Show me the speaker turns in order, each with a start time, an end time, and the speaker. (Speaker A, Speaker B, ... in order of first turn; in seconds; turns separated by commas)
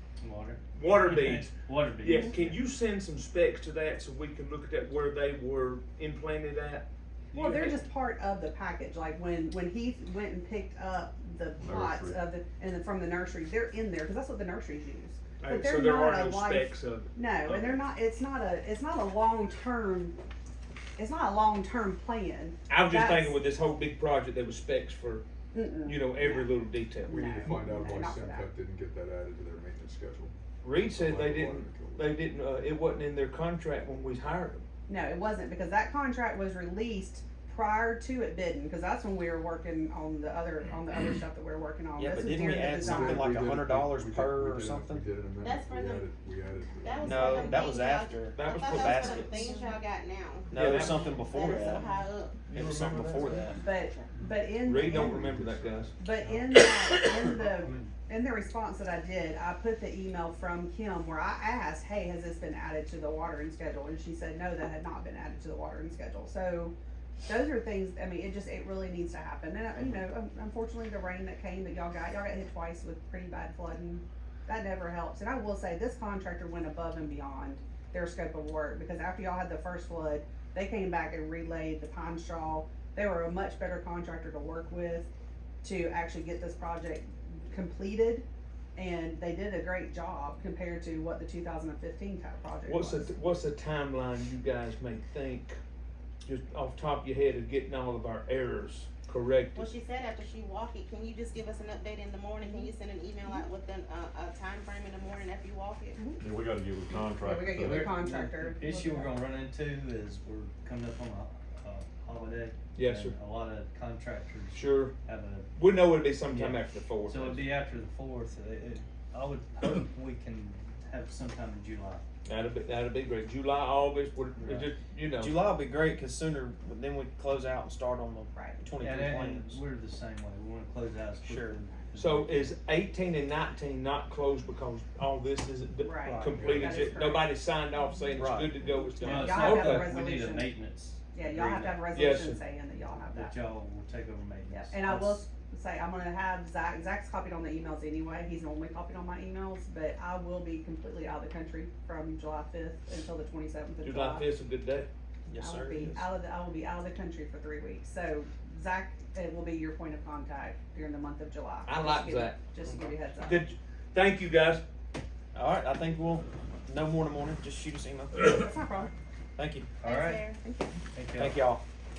Speaker A: 0.2-2.6, Speaker B: 0.7-7.8, Speaker C: 7.3-20.2, Speaker D: 11.6-12.2, Speaker B: 15.4-17.8, Speaker C: 21.0-23.4, Speaker B: 22.7-25.2, Speaker C: 25.5-28.5, Speaker B: 25.8-27.3, Speaker E: 27.0-32.2, Speaker B: 30.6-34.6, Speaker C: 34.9-43.4, Speaker F: 42.0-45.0, Speaker E: 42.8-47.7, Speaker G: 45.4-46.1, Speaker G: 46.8-52.4, Speaker F: 47.0-49.4, Speaker B: 48.3-49.3, Speaker D: 49.0-49.8, Speaker F: 50.5-51.9, Speaker B: 50.5-51.1, Speaker B: 52.5-53.3, Speaker F: 52.5-53.5, Speaker A: 52.6-53.6, Speaker C: 53.5-55.4, Speaker B: 54.6-55.9, Speaker E: 55.0-55.9, Speaker C: 56.0-66.7, Speaker A: 56.1-56.5, Speaker A: 57.4-57.9, Speaker C: 67.2-85.1, Speaker C: 85.6-93.1, Speaker B: 92.6-95.6, Speaker B: 96.2-99.7, Speaker G: 99.5-106.0, Speaker C: 106.0-106.3, Speaker D: 106.2-107.8, Speaker C: 106.9-109.1, Speaker A: 107.6-115.5, Speaker B: 112.7-113.1, Speaker B: 114.5-114.9, Speaker B: 115.5-117.4, Speaker A: 116.3-122.0, Speaker B: 122.2-125.3, Speaker A: 124.4-124.8, Speaker F: 125.1-129.6, Speaker C: 128.3-128.6, Speaker A: 128.8-132.6, Speaker F: 131.2-131.6, Speaker B: 131.9-140.0, Speaker C: 135.8-137.3, Speaker A: 136.0-136.8, Speaker E: 136.2-136.8, Speaker F: 138.1-138.6, Speaker C: 139.0-140.6, Speaker A: 139.0-141.9, Speaker C: 141.1-143.3, Speaker B: 141.9-142.4, Speaker A: 143.0-145.2, Speaker C: 144.5-154.3, Speaker B: 153.8-154.9, Speaker F: 155.3-156.1, Speaker C: 155.4-163.5, Speaker B: 161.7-162.5, Speaker B: 163.2-164.6, Speaker F: 165.3-168.5, Speaker C: 168.2-168.9, Speaker F: 169.3-169.7, Speaker A: 169.8-170.3, Speaker G: 169.8-170.4, Speaker C: 170.4-170.8, Speaker A: 170.9-171.4, Speaker F: 171.2-171.6